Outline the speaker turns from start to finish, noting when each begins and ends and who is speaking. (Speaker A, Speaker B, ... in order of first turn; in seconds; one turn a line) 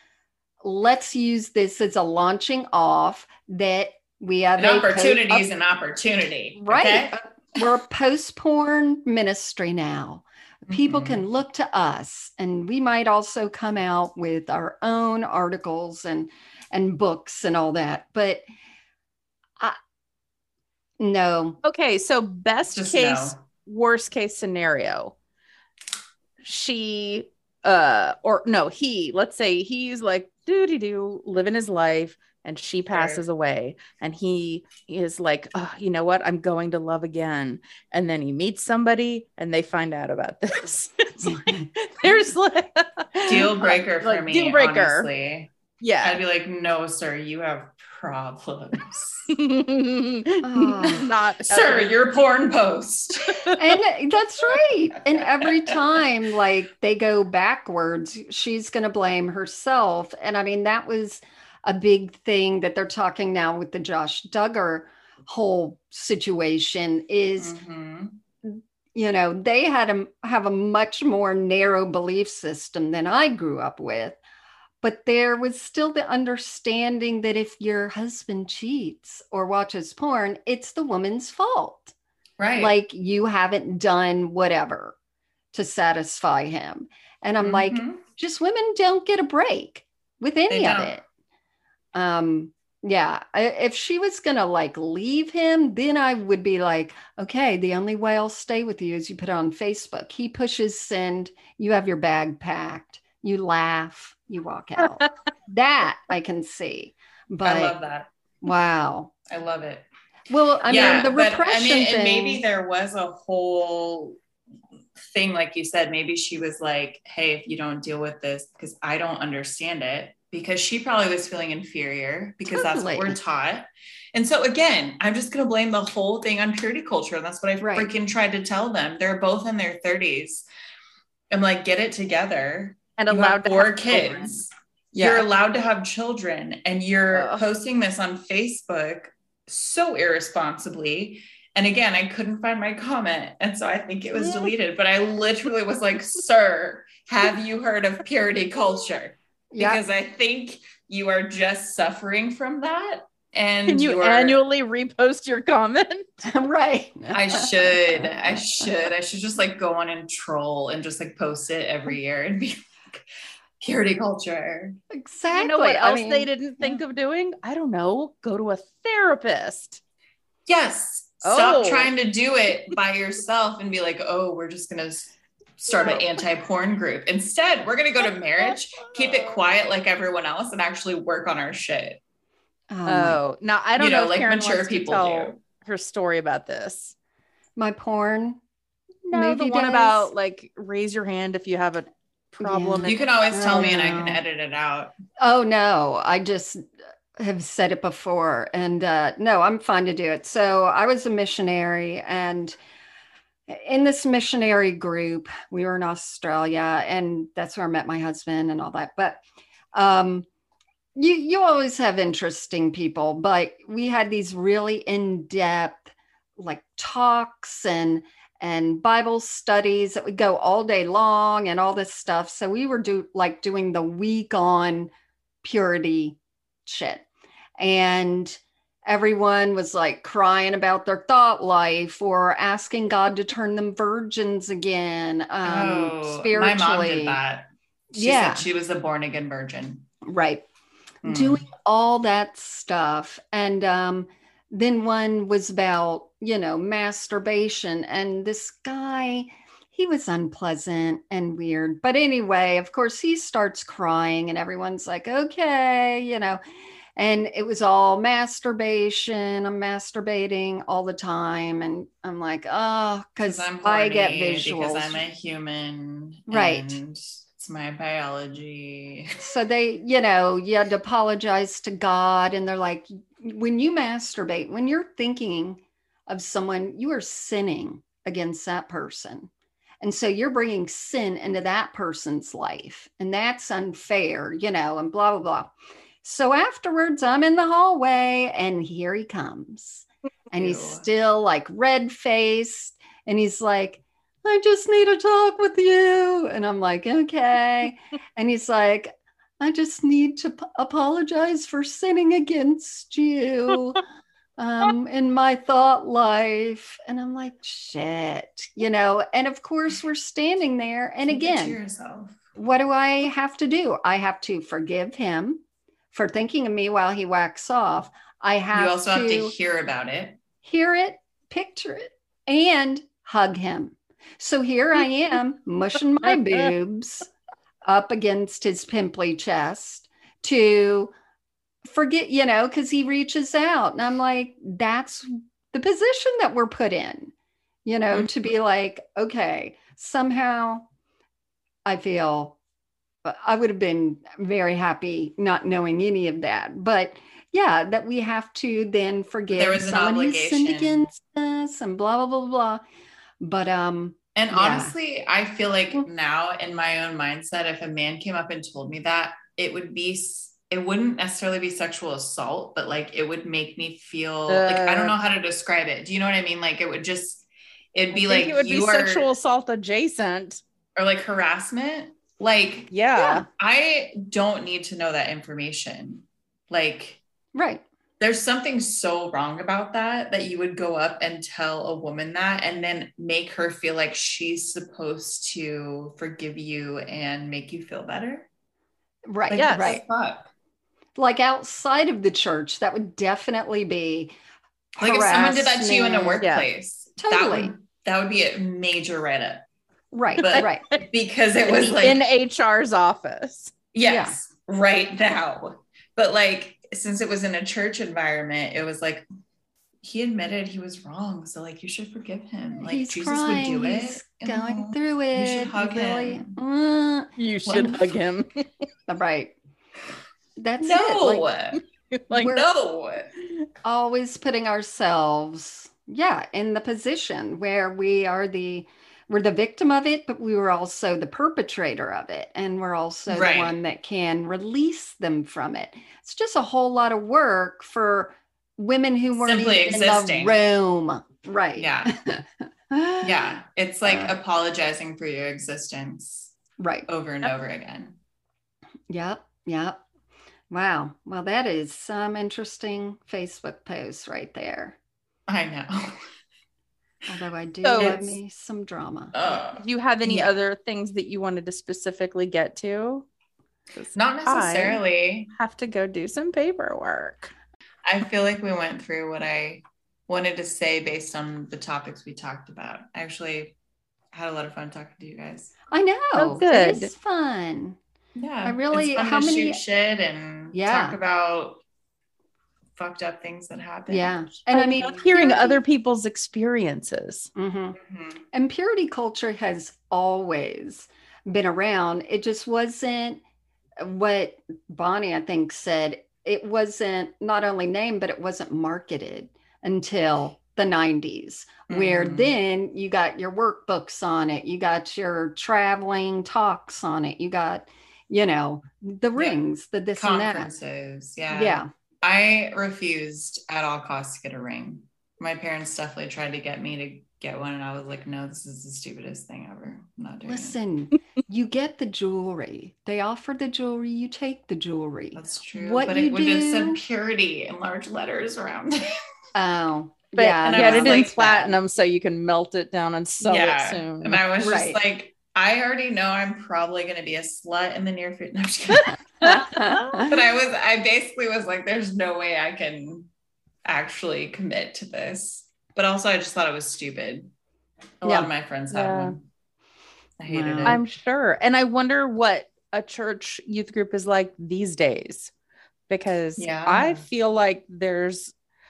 Speaker A: 0.6-5.5
Speaker B: 4.6-7.6
Speaker A: 6.5-18.4
Speaker B: 10.7-11.2
Speaker A: 21.0-21.6
Speaker C: 21.6-25.1
Speaker B: 22.7-23.4
Speaker C: 26.4-45.1
Speaker B: 32.9-33.2
Speaker B: 43.3-45.5
Speaker C: 45.8-46.2
Speaker B: 46.0-49.3
Speaker C: 49.3-51.9
Speaker A: 50.4-51.1
Speaker B: 51.5-53.5
Speaker C: 53.2-53.5
Speaker A: 53.5-67.6
Speaker B: 55.1-55.8
Speaker B: 67.4-68.2
Speaker A: 68.4-74.2
Speaker A: 74.8-81.9
Speaker B: 82.4-82.7
Speaker A: 82.5-85.0
Speaker A: 85.5-91.0
Speaker B: 87.4-88.0
Speaker B: 90.5-90.9
Speaker A: 91.9-107.8
Speaker B: 107.4-108.1
Speaker A: 108.4-109.1
Speaker B: 109.3-109.9
Speaker A: 110.3-112.4
Speaker B: 110.7-114.2
Speaker B: 115.0-130.5
Speaker A: 122.5-123.2
Speaker A: 127.6-127.9
Speaker B: 131.3-154.4
Speaker C: 133.0-134.3
Speaker C: 134.9-135.2
Speaker C: 137.1-137.4
Speaker C: 144.2-144.5
Speaker A: 149.5-149.8
Speaker C: 153.7-156.2
Speaker A: 156.2-158.6
Speaker B: 157.1-163.1
Speaker B: 163.6-164.8
Speaker A: 164.9-166.8
Speaker C: 165.3-169.8
Speaker B: 170.5-182.0
Speaker C: 171.2-171.9
Speaker C: 178.8-179.4
Speaker A: 182.7-183.2
Speaker C: 182.9-186.9
Speaker B: 183.8-185.4
Speaker A: 187.6-188.4
Speaker C: 189.1-193.7
Speaker A: 189.1-190.1
Speaker A: 192.4-194.2
Speaker B: 192.8-194.9
Speaker A: 195.2-196.6
Speaker A: 197.2-202.6
Speaker A: 203.5-209.2
Speaker A: 209.7-210.3
Speaker A: 210.9-224.9
Speaker A: 225.4-227.1
Speaker A: 227.6-237.2
Speaker B: 235.4-239.9
Speaker A: 237.9-238.4
Speaker A: 240.0-240.4
Speaker B: 241.0-241.4
Speaker A: 241.0-256.4
Speaker A: 256.9-265.0
Speaker B: 263.2-269.2
Speaker A: 266.3-266.8
Speaker A: 269.2-279.3
Speaker A: 279.8-285.5
Speaker A: 286.0-303.8
Speaker B: 290.3-290.9
Speaker A: 304.4-311.6
Speaker B: 311.1-312.2
Speaker A: 312.4-319.3
Speaker B: 318.5-320.2
Speaker A: 320.4-327.1
Speaker A: 327.6-330.9
Speaker A: 331.6-337.1
Speaker A: 337.6-340.7
Speaker A: 341.6-342.4
Speaker A: 343.0-352.6
Speaker B: 349.3-350.8
Speaker A: 353.2-354.7
Speaker B: 354.1-369.1
Speaker C: 364.3-364.9
Speaker C: 367.9-370.4
Speaker B: 370.8-372.7
Speaker C: 372.7-373.2
Speaker A: 373.0-373.2
Speaker B: 373.3-377.0
Speaker A: 377.3-377.6
Speaker B: 378.0-388.3
Speaker A: 389.1-389.8
Speaker B: 389.3-390.3
Speaker C: 389.3-389.8
Speaker A: 391.0-394.1
Speaker A: 394.7-396.2
Speaker B: 394.8-399.4
Speaker C: 396.2-396.4
Speaker A: 397.0-397.5
Speaker A: 399.9-400.6
Speaker B: 400.2-402.0
Speaker C: 400.3-400.8
Speaker C: 401.4-403.6
Speaker B: 403.7-409.0
Speaker A: 403.8-404.2
Speaker B: 409.8-416.4
Speaker A: 412.6-417.7
Speaker C: 417.2-418.3
Speaker B: 417.4-417.8
Speaker A: 418.9-419.3
Speaker A: 420.4-421.3
Speaker B: 420.6-421.6
Speaker C: 421.9-422.3
Speaker A: 422.1-422.5
Speaker B: 422.1-423.1
Speaker A: 423.6-443.3
Speaker B: 433.1-433.6
Speaker B: 439.2-440.4
Speaker B: 441.6-441.9
Speaker B: 443.0-446.4
Speaker A: 443.8-444.1
Speaker A: 446.6-446.9
Speaker B: 446.9-448.0
Speaker A: 448.9-449.8
Speaker A: 450.5-454.8
Speaker B: 455.3-456.1
Speaker A: 457.1-459.2
Speaker C: 457.6-458.2
Speaker B: 457.8-458.0
Speaker B: 459.1-460.4
Speaker C: 459.6-463.1
Speaker C: 463.8-464.8
Speaker B: 463.9-465.3
Speaker C: 465.3-467.3
Speaker B: 467.9-473.6
Speaker B: 474.1-475.5
Speaker A: 475.7-477.8
Speaker C: 476.2-476.9
Speaker B: 478.1-481.6
Speaker A: 478.4-479.6
Speaker A: 480.5-481.0
Speaker B: 482.8-485.0
Speaker A: 483.9-485.6
Speaker C: 484.5-487.3
Speaker A: 487.3-487.8
Speaker B: 487.8-488.2
Speaker A: 488.3-493.2
Speaker A: 493.8-510.5
Speaker B: 501.7-502.4
Speaker B: 510.0-520.6
Speaker A: 511.3-511.7
Speaker A: 520.3-526.8
Speaker B: 525.1-528.9
Speaker A: 529.3-531.6
Speaker C: 530.1-534.2
Speaker B: 530.4-531.2
Speaker B: 533.2-543.1
Speaker A: 534.4-534.8
Speaker C: 538.8-540.1
Speaker A: 539.2-540.1
Speaker B: 543.6-547.3
Speaker B: 548.0-549.2
Speaker C: 548.7-549.1
Speaker B: 550.2-550.8
Speaker A: 550.2-550.8
Speaker C: 550.6-555.3
Speaker C: 555.9-558.3
Speaker B: 556.4-557.0